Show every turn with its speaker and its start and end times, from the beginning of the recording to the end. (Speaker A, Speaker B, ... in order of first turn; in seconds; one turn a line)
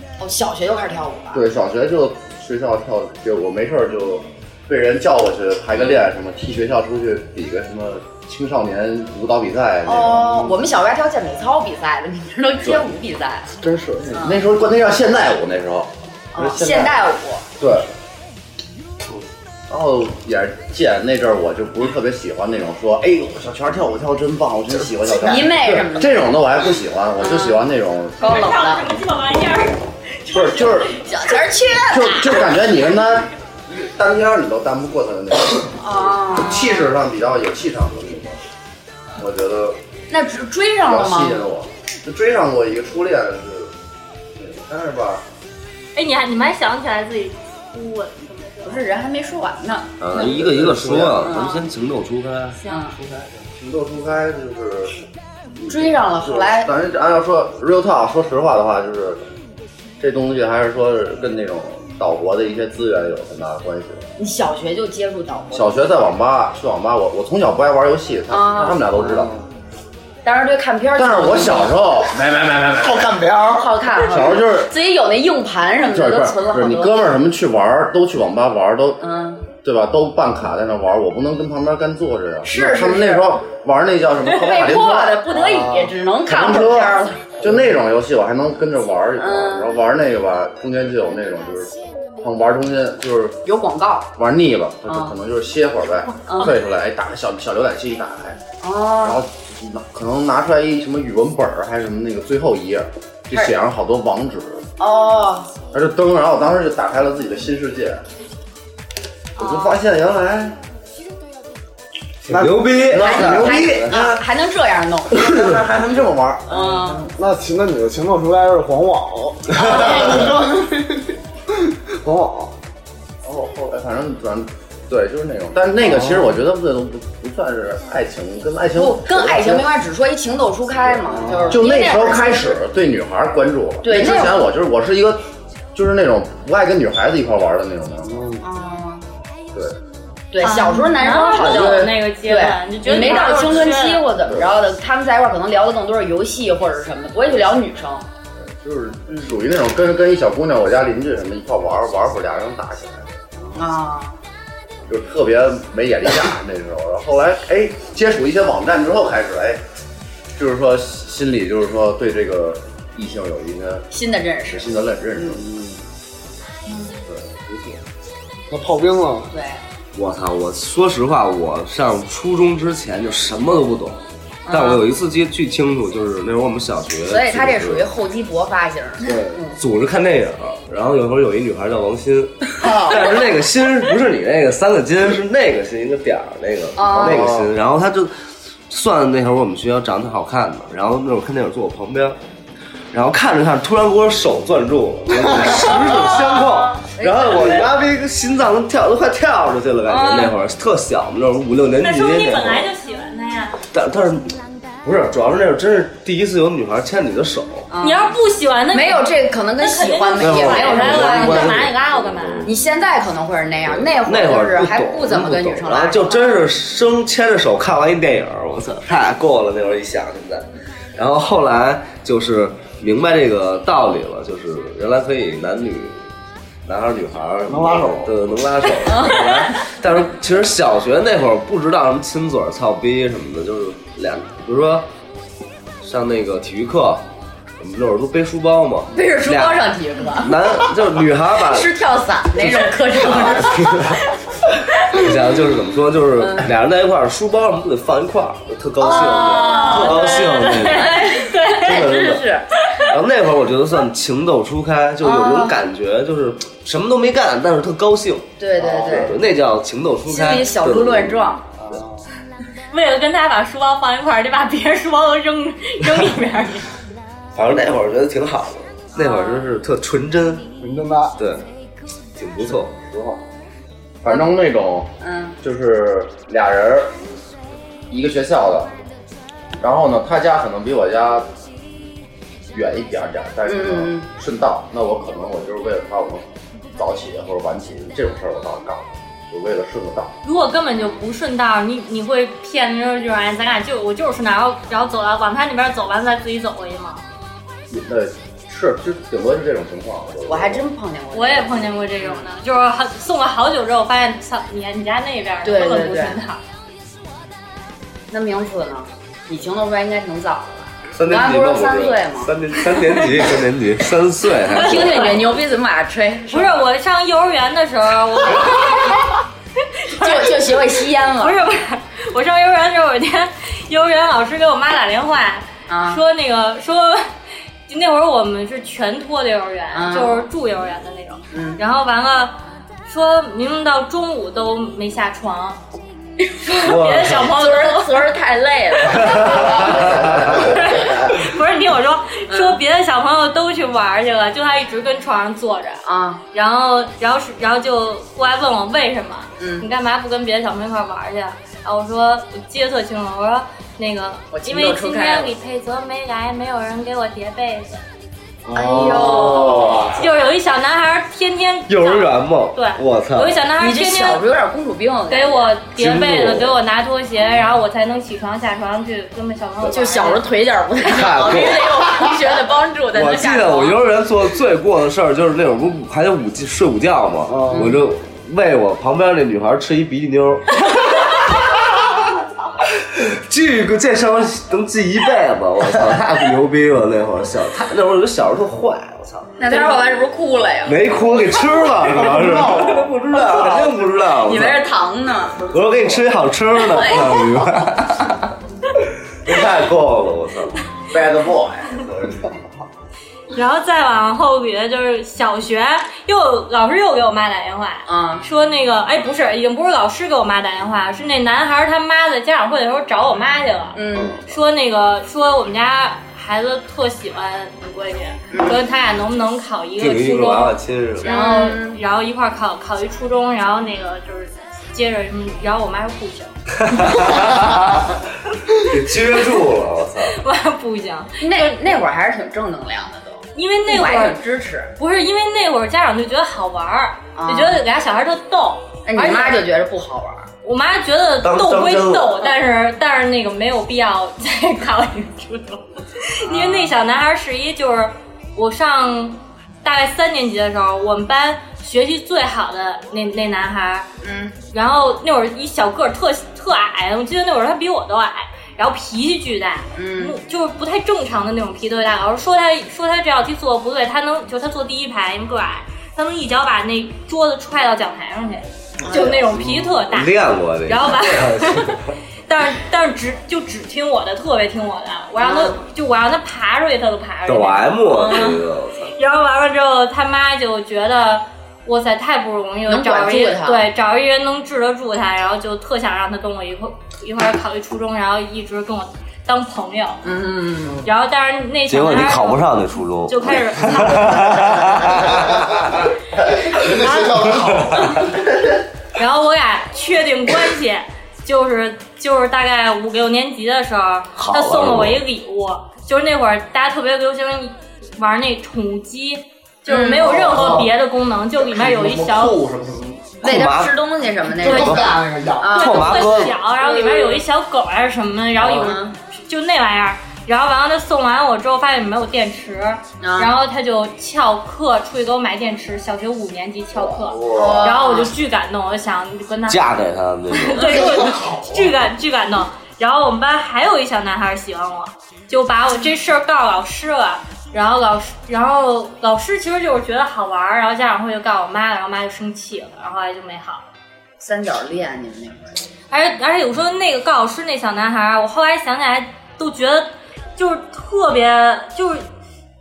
Speaker A: 0.2-1.4
Speaker B: 1.3-10.6
Speaker A: 5.8-6.0
Speaker A: 9.8-13.5
Speaker C: 13.6-14.3
Speaker A: 14.1-14.4
Speaker B: 14.2-17.0
Speaker A: 16.3-17.4
Speaker B: 17.6-17.9
Speaker B: 19.7-28.4
Speaker A: 25.2-26.3
Speaker A: 27.2-27.6
Speaker A: 28.2-28.9
Speaker D: 28.2-31.2
Speaker B: 30.3-31.0
Speaker A: 31.0-32.6
Speaker B: 31.9-38.4
Speaker A: 35.8-36.9
Speaker B: 39.1-39.8
Speaker A: 40.1-41.5
Speaker B: 40.8-43.7
Speaker B: 44.3-45.2
Speaker D: 45.9-48.9
Speaker A: 48.6-50.4
Speaker E: 50.0-52.6
Speaker B: 50.1-51.3
Speaker A: 51.2-51.7
Speaker A: 52.7-53.0
Speaker B: 52.9-55.0
Speaker B: 55.6-59.2
Speaker A: 55.7-56.7
Speaker B: 60.0-64.1
Speaker A: 64.2-65.7
Speaker B: 65.5-69.3
Speaker A: 68.3-68.9
Speaker C: 69.0-69.4
Speaker A: 70.2-71.8
Speaker B: 70.9-73.2
Speaker C: 72.8-73.8
Speaker A: 73.5-77.0
Speaker B: 74.1-74.7
Speaker B: 75.8-79.0
Speaker A: 79.0-79.5
Speaker B: 79.5-85.3
Speaker A: 82.5-83.3
Speaker A: 84.3-87.4
Speaker C: 85.4-85.9
Speaker B: 86.2-93.4
Speaker A: 89.2-89.7
Speaker A: 93.4-94.1
Speaker B: 94.2-98.4
Speaker A: 94.9-95.1
Speaker A: 96.3-96.5
Speaker A: 98.6-99.2
Speaker B: 99.0-104.7
Speaker A: 104.8-105.5
Speaker B: 105.7-108.0
Speaker B: 109.4-110.6
Speaker A: 109.4-109.7
Speaker E: 112.3-113.5
Speaker C: 112.3-112.7
Speaker B: 112.7-114.2
Speaker A: 112.8-115.3
Speaker B: 115.1-116.7
Speaker A: 116.5-117.1
Speaker C: 116.6-122.5
Speaker A: 119.5-120.3
Speaker B: 123.2-129.7
Speaker C: 125.9-126.3
Speaker A: 128.8-132.6
Speaker C: 131.0-131.6
Speaker B: 131.3-138.2
Speaker A: 133.8-134.4
Speaker C: 138.1-138.4
Speaker A: 138.4-139.1
Speaker A: 140.3-148.0
Speaker D: 140.4-144.1
Speaker B: 141.3-141.9
Speaker B: 143.3-143.7
Speaker B: 144.3-144.6
Speaker B: 148.4-153.1
Speaker A: 153.5-154.2
Speaker B: 154.9-159.6
Speaker B: 160.3-163.9
Speaker A: 163.9-165.4
Speaker B: 164.5-165.4
Speaker C: 165.4-165.8
Speaker B: 167.1-167.8
Speaker C: 168.5-169.3
Speaker A: 169.3-169.6
Speaker E: 169.9-177.9
Speaker A: 174.5-174.8
Speaker A: 177.1-179.6
Speaker C: 179.0-179.4
Speaker E: 179.6-188.1
Speaker A: 182.6-183.2
Speaker A: 186.8-187.3
Speaker B: 186.9-187.5
Speaker E: 188.7-192.2
Speaker E: 192.9-202.7
Speaker C: 195.2-195.6
Speaker A: 195.6-197.7
Speaker A: 199.9-200.3
Speaker D: 201.8-203.6
Speaker E: 203.7-204.3
Speaker E: 204.8-207.7
Speaker A: 207.7-208.2
Speaker D: 207.8-212.5
Speaker A: 208.7-211.6
Speaker E: 210.2-212.6
Speaker A: 212.4-216.2
Speaker E: 213.6-226.0
Speaker D: 216.1-216.4
Speaker E: 226.6-234.9
Speaker C: 227.4-228.2
Speaker A: 228.8-229.6
Speaker E: 235.8-237.0
Speaker E: 237.6-241.7
Speaker A: 238.9-240.7
Speaker A: 241.4-244.0
Speaker E: 243.0-243.8
Speaker E: 244.9-252.3
Speaker A: 246.2-246.5
Speaker A: 248.8-252.4
Speaker D: 248.9-252.0
Speaker D: 252.6-252.9
Speaker E: 252.8-261.3
Speaker A: 255.0-255.5
Speaker A: 258.4-259.2
Speaker C: 258.6-259.1
Speaker A: 260.1-261.4
Speaker C: 261.6-262.1
Speaker D: 262.7-266.7
Speaker E: 267.3-270.5
Speaker D: 268.9-269.4
Speaker C: 270.6-271.2
Speaker E: 271.2-271.4
Speaker E: 272.2-272.7
Speaker B: 272.7-273.2
Speaker B: 274.0-276.9
Speaker A: 275.0-275.4
Speaker B: 277.9-278.7
Speaker B: 279.6-281.3
Speaker B: 282.5-290.1
Speaker A: 283.4-284.1
Speaker D: 290.2-297.0
Speaker B: 297.7-300.6
Speaker A: 300.3-302.3
Speaker D: 301.1-306.4
Speaker A: 305.4-306.2
Speaker A: 308.1-312.3
Speaker E: 310.9-315.3
Speaker A: 314.5-316.6
Speaker D: 314.5-315.1
Speaker D: 316.3-319.1
Speaker A: 318.3-319.0
Speaker D: 319.8-327.1
Speaker A: 320.0-321.4
Speaker A: 325.7-326.0
Speaker D: 327.7-335.6
Speaker A: 329.7-330.3
Speaker A: 331.3-331.6
Speaker D: 336.4-338.1
Speaker E: 336.6-337.3
Speaker A: 337.2-341.1
Speaker E: 338.9-340.4
Speaker D: 338.9-339.8
Speaker D: 340.3-357.8
Speaker A: 342.3-342.6
Speaker A: 345.8-346.2
Speaker A: 349.4-349.7
Speaker A: 354.3-355.3
Speaker C: 358.4-360.1
Speaker A: 358.5-360.0
Speaker D: 359.9-364.2
Speaker E: 361.7-363.4
Speaker A: 363.6-365.5
Speaker D: 365.1-370.3
Speaker E: 365.8-366.6
Speaker A: 369.6-373.8
Speaker E: 370.8-372.1
Speaker E: 372.9-380.7
Speaker C: 377.3-377.8
Speaker A: 377.5-377.8
Speaker E: 382.8-389.7
Speaker A: 389.4-390.8
Speaker D: 389.5-389.8
Speaker E: 390.6-394.6
Speaker C: 391.8-393.2
Speaker A: 393.1-395.5
Speaker E: 395.5-398.3
Speaker A: 396.6-397.7
Speaker E: 399.2-400.6
Speaker B: 400.9-402.4
Speaker D: 403.3-427.2
Speaker A: 407.9-408.2
Speaker A: 413.7-414.2
Speaker C: 413.9-414.2
Speaker A: 418.3-418.6
Speaker E: 419.8-421.2
Speaker A: 421.0-421.8
Speaker E: 426.6-428.0
Speaker E: 428.5-430.1
Speaker D: 430.1-431.9
Speaker A: 431.2-434.7
Speaker D: 433.3-434.2
Speaker D: 434.8-439.4
Speaker A: 437.1-437.6
Speaker A: 438.9-440.3
Speaker D: 440.4-453.9
Speaker E: 441.2-442.3
Speaker A: 446.2-446.7
Speaker A: 454.0-454.3
Speaker D: 454.5-478.4
Speaker A: 459.7-460.2
Speaker A: 468.8-469.2
Speaker E: 469.4-471.9
Speaker A: 475.2-475.6
Speaker E: 477.3-478.9
Speaker A: 477.9-478.4
Speaker D: 478.9-490.0
Speaker A: 482.7-483.6
Speaker A: 490.0-490.8
Speaker D: 490.8-494.8
Speaker E: 491.7-495.8
Speaker C: 495.1-495.6
Speaker C: 496.3-498.2
Speaker D: 496.7-497.1
Speaker E: 497.4-497.8
Speaker D: 497.8-498.1
Speaker D: 498.9-512.4
Speaker E: 504.1-505.0
Speaker A: 509.6-510.6
Speaker C: 510.0-510.7
Speaker C: 511.5-512.3
Speaker E: 512.6-513.8
Speaker A: 513.2-516.3
Speaker C: 514.4-516.0
Speaker E: 514.4-515.0
Speaker D: 515.5-529.6
Speaker E: 515.5-516.4
Speaker C: 516.6-517.2
Speaker C: 518.4-518.7
Speaker A: 518.4-518.9
Speaker A: 523.0-523.3
Speaker C: 526.7-527.8
Speaker A: 527.3-528.1
Speaker E: 529.5-530.8
Speaker D: 530.3-543.6
Speaker C: 530.5-531.8
Speaker A: 544.2-545.6
Speaker D: 545.9-552.0